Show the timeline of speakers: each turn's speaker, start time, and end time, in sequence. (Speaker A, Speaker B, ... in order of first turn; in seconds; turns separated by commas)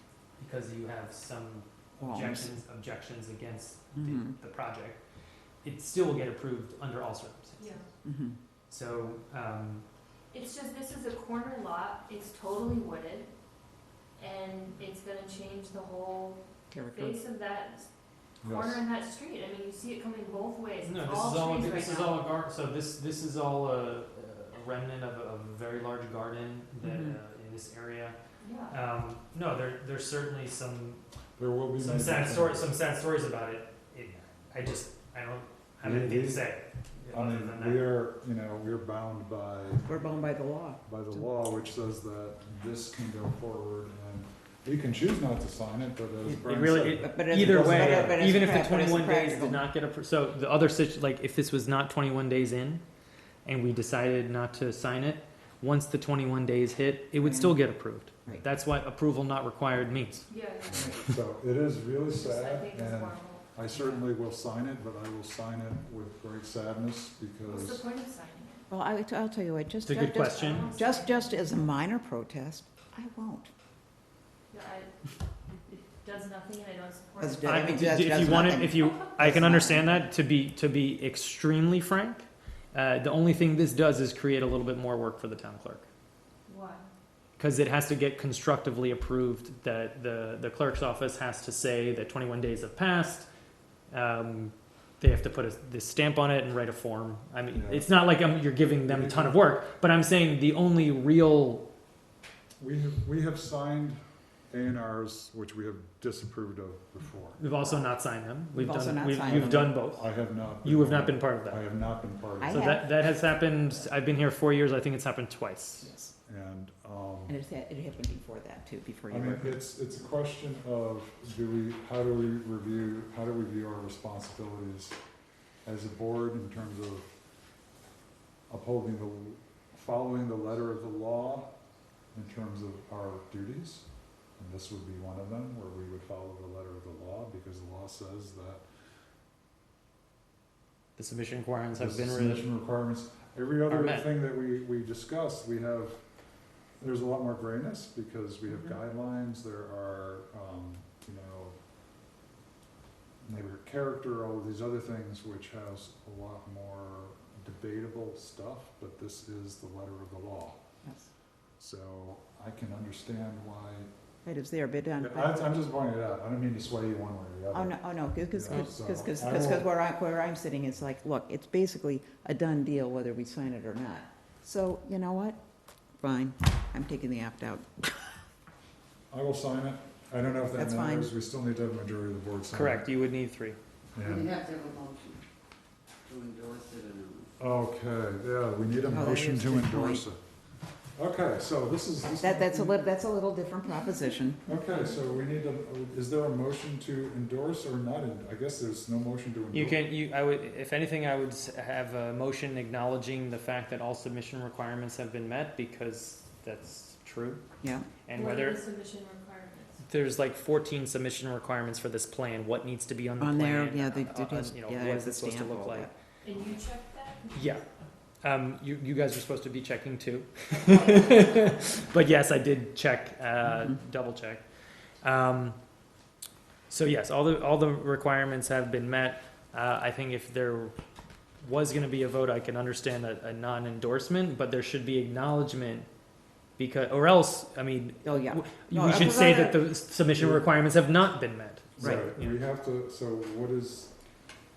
Speaker A: 0.4-5.0, Speaker B: 2.0-2.6, Speaker B: 4.0-4.3, Speaker A: 5.6-7.8, Speaker C: 7.6-7.9, Speaker B: 8.0-8.4, Speaker A: 8.7-9.8, Speaker C: 10.3-13.3, Speaker C: 14.2-17.9, Speaker B: 16.7-17.2, Speaker D: 18.4-18.8, Speaker C: 18.4-22.2, Speaker A: 20.8-28.2, Speaker B: 26.8-27.2, Speaker C: 28.4-28.8, Speaker A: 28.7-31.0, Speaker D: 31.4-32.7, Speaker A: 31.8-38.0, Speaker D: 35.8-36.5, Speaker D: 37.1-39.9, Speaker B: 39.8-40.8, Speaker D: 40.9-48.3, Speaker A: 46.2-52.8, Speaker B: 47.0-49.6, Speaker A: 53.5-60.3, Speaker B: 57.2-57.6, Speaker C: 60.3-61.0, Speaker D: 60.7-67.8, Speaker C: 62.1-63.6, Speaker C: 67.4-68.7, Speaker B: 68.7-73.5, Speaker A: 69.8-70.7, Speaker C: 70.2-71.5, Speaker C: 74.5-79.5, Speaker B: 77.2-80.1, Speaker A: 77.4-85.9, Speaker C: 86.5-86.9, Speaker A: 87.4-93.3, Speaker A: 93.9-101.7, Speaker D: 97.5-97.9, Speaker D: 98.8-99.4, Speaker D: 102.6-104.0, Speaker D: 104.5-107.4, Speaker A: 107.4-111.6, Speaker B: 107.6-107.9, Speaker B: 108.5-109.8, Speaker D: 109.2-112.8, Speaker B: 112.4-113.0, Speaker A: 112.5-115.9, Speaker D: 116.2-117.3, Speaker B: 117.3-119.6, Speaker D: 119.1-125.0, Speaker D: 125.7-127.1, Speaker D: 128.5-131.5, Speaker D: 132.1-133.9, Speaker D: 134.4-138.6, Speaker A: 141.0-142.5, Speaker D: 141.7-146.0, Speaker A: 143.7-144.1, Speaker D: 146.8-151.6, Speaker D: 153.2-160.7, Speaker B: 160.8-161.1, Speaker D: 161.6-163.9, Speaker B: 164.2-165.5, Speaker D: 165.0-169.7, Speaker B: 167.5-175.4, Speaker B: 176.0-178.2, Speaker D: 179.1-182.9, Speaker B: 180.6-181.1, Speaker A: 182.5-183.6, Speaker D: 183.9-184.4, Speaker E: 184.0-185.2, Speaker E: 186.1-187.3, Speaker D: 187.4-190.2, Speaker B: 188.9-190.0, Speaker D: 191.0-192.9, Speaker B: 192.2-194.4, Speaker D: 194.5-199.8, Speaker A: 199.5-207.4, Speaker B: 207.6-207.9, Speaker A: 208.1-208.6, Speaker C: 208.1-209.8, Speaker A: 209.8-215.9, Speaker B: 213.2-215.9, Speaker C: 216.2-217.4, Speaker A: 217.3-217.6, Speaker A: 218.2-224.4, Speaker C: 220.6-221.5, Speaker A: 225.0-225.6, Speaker A: 226.7-230.8, Speaker A: 231.4-235.9, Speaker A: 236.6-242.4, Speaker B: 238.0-239.7, Speaker D: 240.1-240.5, Speaker D: 241.8-243.9, Speaker B: 241.8-242.1